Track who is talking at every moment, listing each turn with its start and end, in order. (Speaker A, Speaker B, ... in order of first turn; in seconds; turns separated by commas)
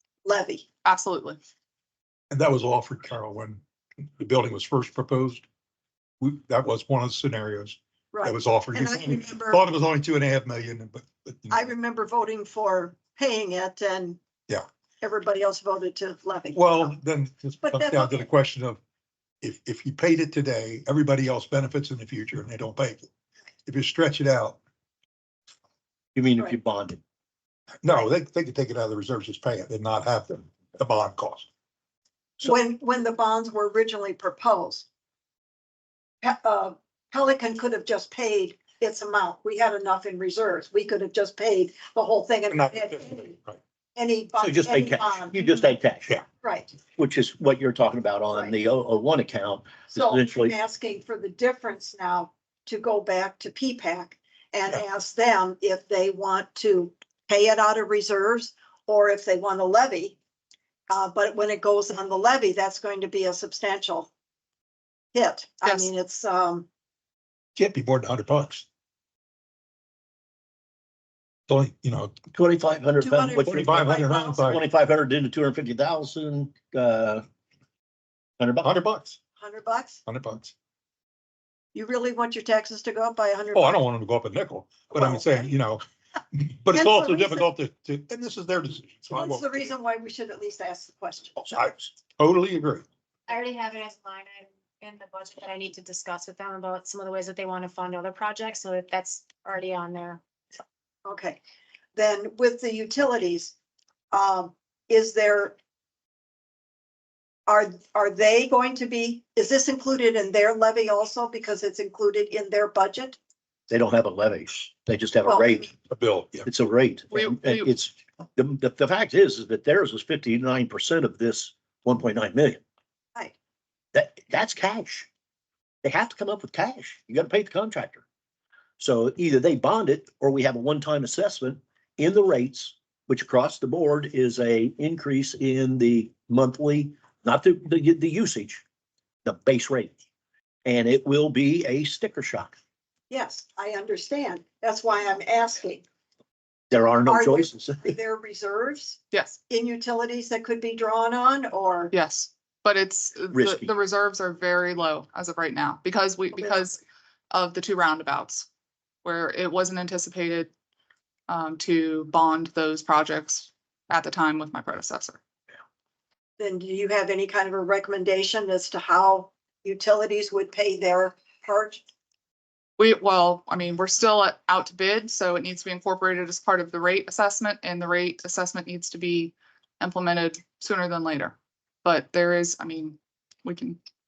Speaker A: 0.2-0.7, Speaker B: 0.8-1.4, Speaker C: 2.3-3.6, Speaker C: 4.2-5.4, Speaker C: 6.2-11.7, Speaker A: 8.1-9.6, Speaker A: 11.5-14.2, Speaker A: 15.0-16.9, Speaker C: 16.5-18.8, Speaker A: 17.6-18.3, Speaker C: 19.4-23.1, Speaker C: 23.6-24.6, Speaker D: 26.1-27.0, Speaker C: 27.8-31.5, Speaker A: 32.4-34.9, Speaker A: 36.2-43.4, Speaker C: 42.5-43.6, Speaker A: 44.0-45.7, Speaker D: 44.4-46.1, Speaker A: 46.4-46.8, Speaker D: 47.0-50.5, Speaker A: 49.9-60.2, Speaker A: 60.9-64.1, Speaker A: 65.1-66.7, Speaker B: 65.6-65.9, Speaker C: 67.5-68.7, Speaker C: 71.5-72.2, Speaker D: 72.3-73.9, Speaker A: 73.0-74.4, Speaker C: 73.4-74.6, Speaker D: 74.4-77.2, Speaker D: 78.4-78.7, Speaker C: 78.6-79.2, Speaker A: 79.4-80.0, Speaker C: 80.0-80.5, Speaker A: 81.7-83.8, Speaker C: 83.5-89.5, Speaker A: 84.9-85.3, Speaker A: 86.7-87.5, Speaker A: 89.1-91.5, Speaker C: 91.5-92.8, Speaker E: 93.3-100.2, Speaker A: 101.0-101.4, Speaker A: 102.0-103.5, Speaker A: 104.1-105.5, Speaker A: 107.5-113.2, Speaker D: 113.7-115.7, Speaker A: 115.2-115.6, Speaker C: 115.9-116.5, Speaker D: 116.5-122.6, Speaker B: 117.1-117.7, Speaker D: 123.9-125.1, Speaker D: 125.8-128.0, Speaker D: 128.8-138.6, Speaker D: 139.2-139.9, Speaker D: 140.6-142.5, Speaker A: 143.1-145.8, Speaker D: 146.7-147.9, Speaker A: 147.1-151.9, Speaker B: 149.1-149.4, Speaker B: 151.9-158.5, Speaker D: 153.3-153.7, Speaker B: 159.0-160.5, Speaker B: 161.3-165.2, Speaker A: 166.4-171.8, Speaker B: 172.8-183.8